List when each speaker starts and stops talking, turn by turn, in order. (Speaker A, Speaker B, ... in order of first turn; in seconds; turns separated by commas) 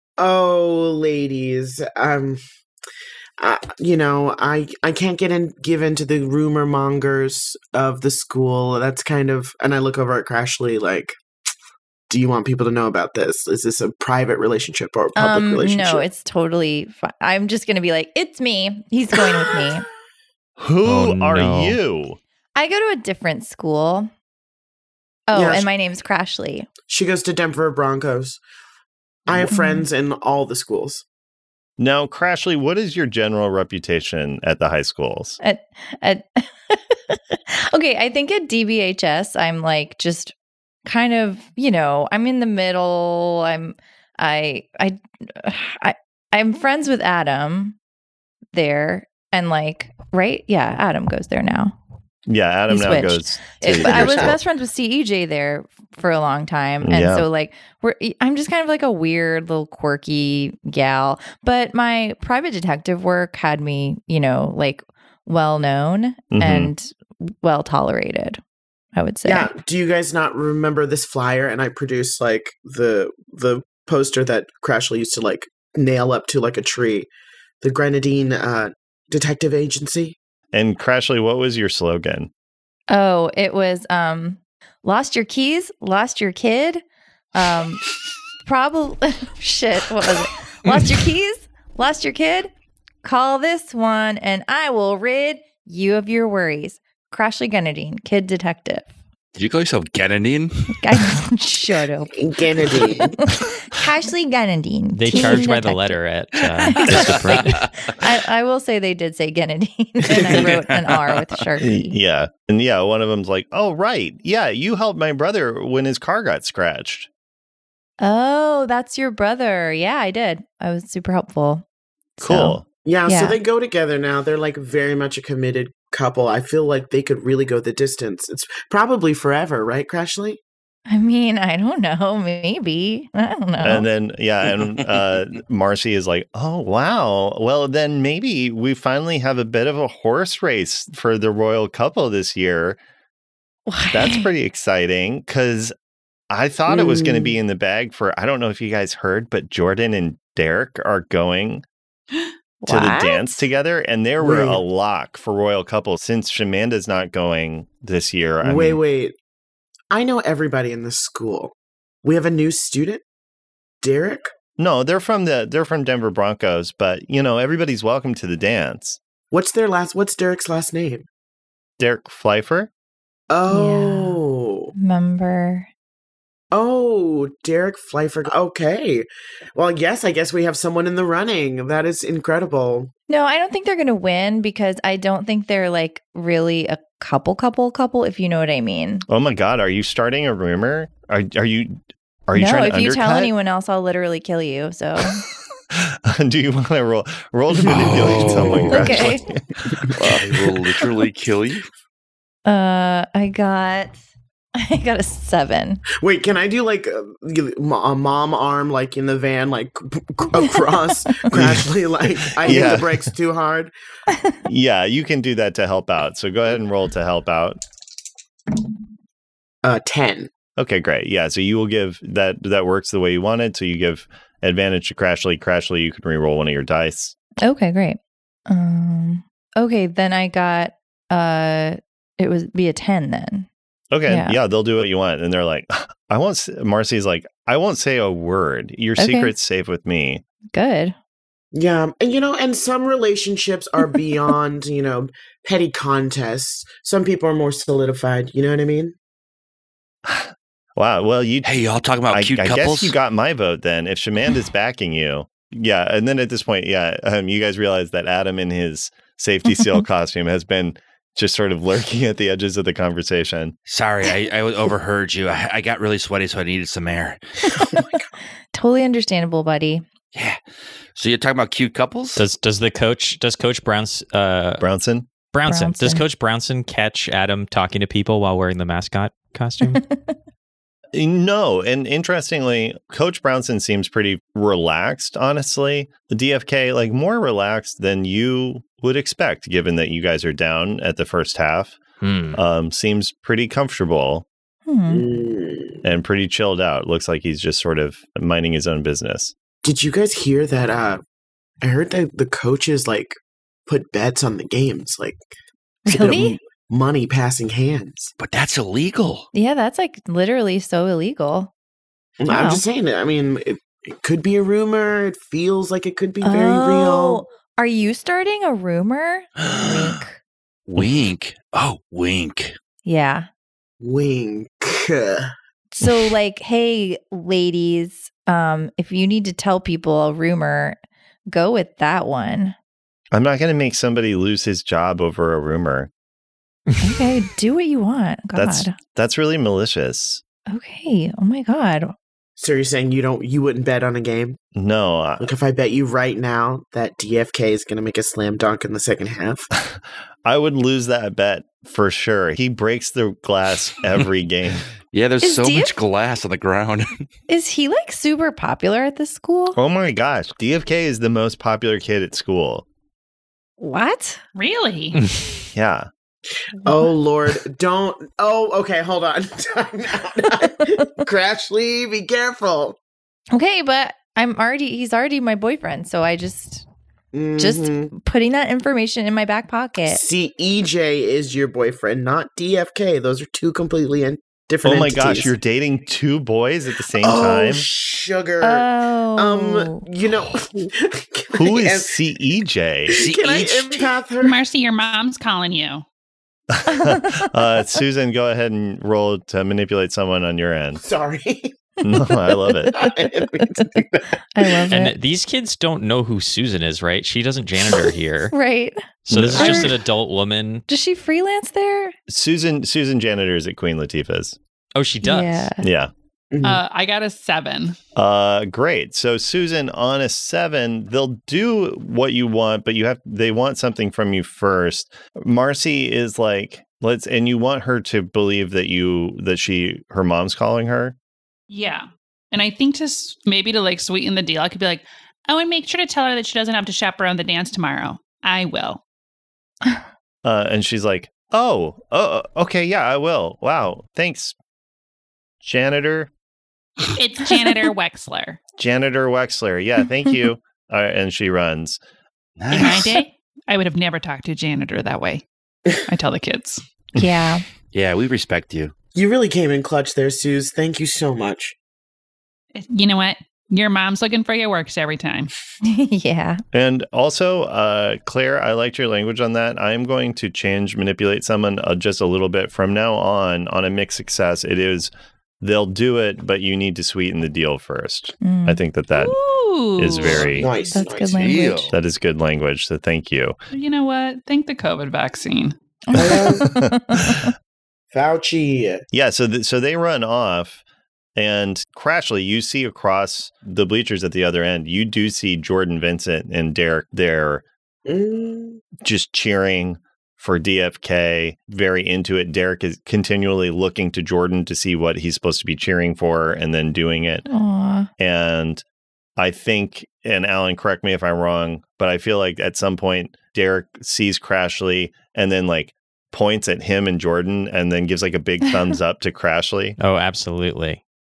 Speaker A: 0.2-2.4, Speaker A: 3.4-11.2, Speaker A: 12.1-16.1, Speaker B: 15.2-19.8, Speaker C: 20.6-22.2, Speaker D: 20.8-21.8, Speaker B: 22.6-24.1, Speaker B: 25.3-26.7, Speaker A: 25.3-25.7, Speaker A: 26.9-28.4, Speaker A: 29.3-31.0, Speaker B: 29.5-29.9, Speaker C: 31.8-35.4, Speaker B: 35.4-40.3, Speaker B: 40.9-47.8, Speaker B: 48.5-51.8, Speaker C: 52.3-54.4, Speaker B: 52.7-68.4, Speaker A: 53.8-54.4, Speaker C: 56.8-57.2, Speaker C: 66.3-66.7, Speaker B: 69.0-69.5, Speaker A: 69.2-77.1, Speaker A: 77.6-80.2, Speaker C: 80.5-82.3, Speaker B: 82.9-86.8, Speaker B: 87.3-87.8, Speaker B: 88.4-92.5, Speaker B: 93.0-98.9, Speaker E: 99.3-101.1, Speaker B: 100.8-102.2, Speaker A: 102.1-103.2, Speaker B: 102.7-106.0, Speaker D: 104.9-107.7, Speaker B: 106.7-111.9, Speaker E: 106.8-107.9, Speaker E: 110.3-111.2, Speaker C: 111.6-117.1, Speaker B: 118.0-121.6, Speaker B: 122.2-123.3, Speaker C: 122.2-122.6, Speaker A: 122.8-130.4, Speaker B: 130.9-133.8, Speaker C: 133.6-142.8, Speaker B: 143.7-144.3, Speaker C: 143.9-145.7, Speaker C: 146.3-151.6, Speaker A: 146.7-147.3, Speaker B: 152.6-153.4, Speaker C: 152.7-158.8, Speaker A: 154.2-154.6, Speaker A: 158.4-159.2, Speaker A: 159.9-163.0, Speaker A: 163.8-164.3, Speaker C: 164.6-169.0, Speaker A: 169.3-171.1, Speaker C: 171.8-172.7, Speaker A: 173.3-174.7, Speaker B: 173.5-174.2, Speaker B: 174.7-175.7, Speaker A: 176.5-182.9, Speaker B: 183.1-189.1, Speaker C: 189.1-193.3, Speaker B: 192.3-195.2, Speaker C: 195.7-199.6, Speaker A: 197.6-198.9, Speaker E: 197.6-199.1, Speaker B: 198.7-199.2, Speaker A: 199.7-200.8, Speaker E: 199.9-201.7, Speaker B: 202.4-204.0, Speaker B: 204.6-205.8, Speaker A: 206.0-213.7, Speaker C: 211.3-211.7, Speaker C: 212.4-213.1, Speaker C: 214.4-217.6, Speaker A: 219.6-220.3, Speaker C: 220.6-227.2, Speaker B: 227.4-233.5, Speaker C: 233.9-240.2, Speaker B: 234.1-234.4, Speaker B: 239.0-239.3, Speaker B: 240.5-240.9, Speaker A: 241.5-248.9, Speaker C: 250.0-251.6, Speaker E: 251.4-252.9, Speaker C: 252.1-263.5, Speaker B: 259.5-259.8, Speaker E: 263.7-267.2, Speaker B: 268.5-269.8, Speaker E: 270.1-270.4, Speaker E: 270.9-272.2, Speaker D: 272.2-274.6, Speaker C: 274.6-275.1, Speaker D: 275.3-279.8, Speaker B: 275.5-276.0, Speaker B: 279.6-280.0, Speaker C: 280.9-291.8, Speaker D: 292.0-292.4, Speaker C: 292.3-294.2, Speaker B: 294.7-295.0, Speaker A: 294.9-295.8, Speaker C: 295.8-299.3, Speaker A: 299.6-301.0, Speaker A: 301.6-305.2, Speaker B: 305.9-306.4, Speaker A: 305.9-308.1, Speaker E: 308.2-309.3, Speaker B: 309.3-311.5, Speaker A: 312.2-317.2, Speaker B: 312.3-312.6, Speaker B: 316.2-320.2, Speaker E: 319.4-319.9, Speaker E: 320.7-322.5, Speaker B: 322.8-323.3, Speaker A: 323.8-325.3, Speaker B: 325.7-330.8, Speaker B: 331.3-332.6, Speaker C: 333.1-335.9, Speaker B: 336.8-338.7, Speaker C: 338.3-340.2, Speaker B: 340.5-341.9, Speaker A: 342.4-344.4, Speaker C: 344.5-345.3, Speaker A: 345.2-349.5, Speaker C: 349.6-354.7, Speaker E: 354.9-357.0, Speaker B: 355.2-355.8, Speaker B: 357.3-359.6, Speaker C: 359.5-362.6, Speaker B: 363.6-364.2, Speaker F: 364.3-365.0, Speaker C: 365.5-365.9, Speaker A: 366.6-372.8, Speaker B: 373.3-376.6, Speaker A: 377.1-377.9, Speaker B: 377.4-380.0, Speaker A: 379.9-385.3, Speaker C: 384.6-387.6, Speaker A: 387.0-391.9, Speaker B: 388.4-389.8, Speaker C: 391.3-393.0, Speaker E: 392.9-394.0, Speaker A: 392.9-394.4, Speaker F: 394.2-395.8, Speaker C: 396.5-400.8, Speaker B: 396.7-397.3, Speaker A: 400.8-401.5, Speaker C: 401.8-402.7, Speaker B: 401.9-402.9, Speaker A: 402.7-404.2, Speaker B: 404.3-404.9, Speaker D: 404.7-408.3, Speaker B: 408.3-409.7, Speaker D: 409.1-410.6, Speaker C: 409.1-409.6, Speaker B: 410.7-411.9, Speaker C: 412.1-414.4, Speaker D: 414.7-415.5, Speaker B: 415.0-415.6, Speaker C: 415.6-415.9, Speaker A: 416.3-416.6, Speaker F: 416.4-417.8, Speaker C: 417.9-430.9, Speaker F: 431.5-438.8, Speaker C: 440.2-444.4, Speaker C: 445.4-446.1, Speaker F: 446.9-448.4, Speaker C: 448.6-451.8, Speaker E: 452.4-453.0, Speaker F: 452.5-455.2, Speaker F: 455.9-456.6, Speaker B: 456.9-457.4, Speaker E: 457.7-458.7, Speaker A: 458.9-461.5, Speaker F: 462.5-465.3, Speaker B: 465.6-466.4, Speaker C: 466.5-479.2, Speaker B: 478.2-478.6, Speaker F: 478.9-480.4, Speaker C: 479.8-480.5, Speaker A: 480.3-481.4, Speaker B: 480.7-481.7, Speaker E: 481.1-481.7, Speaker C: 481.7-483.4, Speaker F: 483.5-485.6, Speaker B: 485.9-487.3, Speaker A: 485.9-486.4, Speaker C: 485.9-487.3, Speaker A: 487.9-488.8, Speaker C: 488.9-490.6, Speaker C: 491.1-497.4, Speaker A: 497.9-498.6, Speaker C: 498.8-507.2, Speaker B: 507.3-507.9, Speaker C: 508.0-508.6, Speaker C: 509.2-519.8, Speaker D: 519.8-520.8